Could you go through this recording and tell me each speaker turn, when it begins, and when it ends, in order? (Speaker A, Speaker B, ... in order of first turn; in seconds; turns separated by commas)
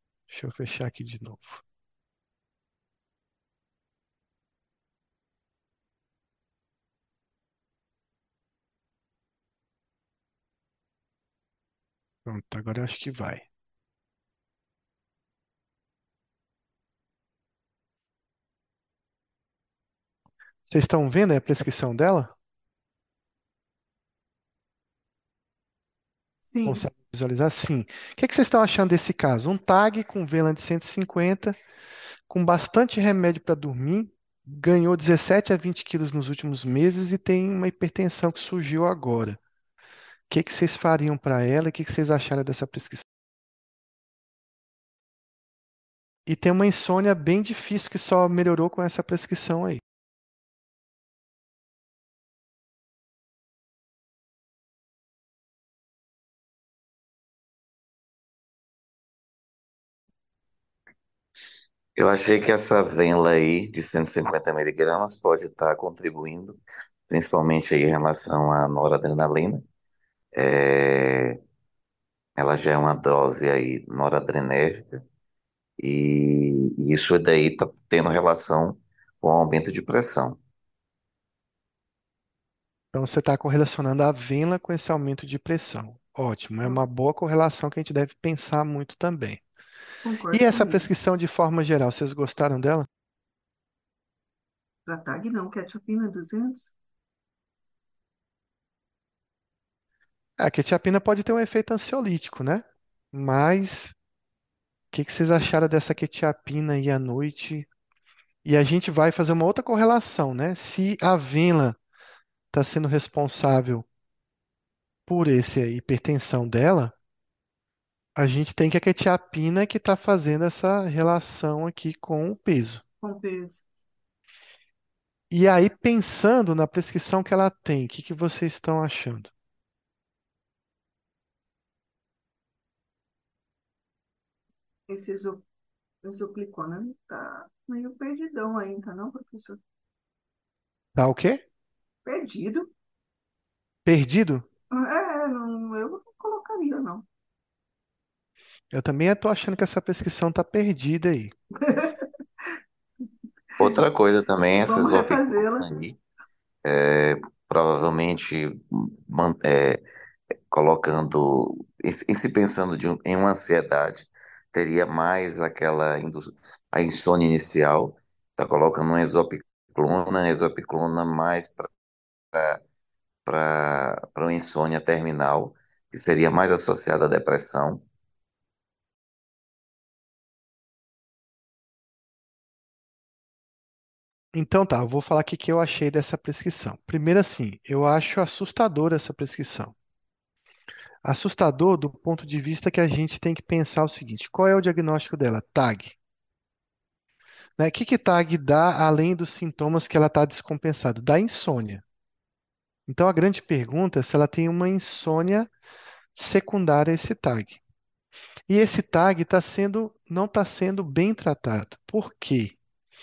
Speaker A: 0.3-1.6, Speaker A: 12.3-13.5, Speaker A: 20.7-22.3, Speaker B: 26.4-26.8, Speaker A: 26.7-31.6, Speaker A: 32.3-39.4, Speaker A: 40.3-43.0, Speaker A: 46.3-49.8, Speaker C: 62.0-69.6, Speaker C: 70.3-71.4, Speaker C: 72.4-75.0, Speaker C: 75.8-80.4, Speaker A: 82.9-89.4, Speaker B: 90.0-90.9, Speaker A: 90.3-92.9, Speaker B: 94.9-96.7, Speaker A: 100.4-103.9, Speaker A: 104.9-107.7, Speaker A: 108.5-111.8, Speaker A: 112.5-113.9, Speaker A: 115.1-117.0, Speaker A: 118.2-122.8, Speaker B: 123.0-123.6, Speaker A: 125.3-129.3, Speaker B: 134.9-135.4, Speaker B: 136.0-139.6, Speaker A: 141.0-141.4, Speaker B: 142.1-142.7, Speaker A: 143.8-144.4, Speaker B: 144.7-147.1, Speaker A: 148.7-151.3, Speaker B: 151.6-152.1, Speaker C: 153.6-156.0, Speaker B: 154.7-155.7, Speaker C: 156.7-159.8, Speaker C: 160.5-171.7, Speaker C: 172.3-172.6, Speaker C: 173.3-177.8, Speaker A: 184.3-189.7, Speaker A: 191.0-196.0, Speaker A: 197.6-201.8, Speaker A: 202.9-205.5, Speaker A: 206.2-207.6, Speaker A: 208.5-212.6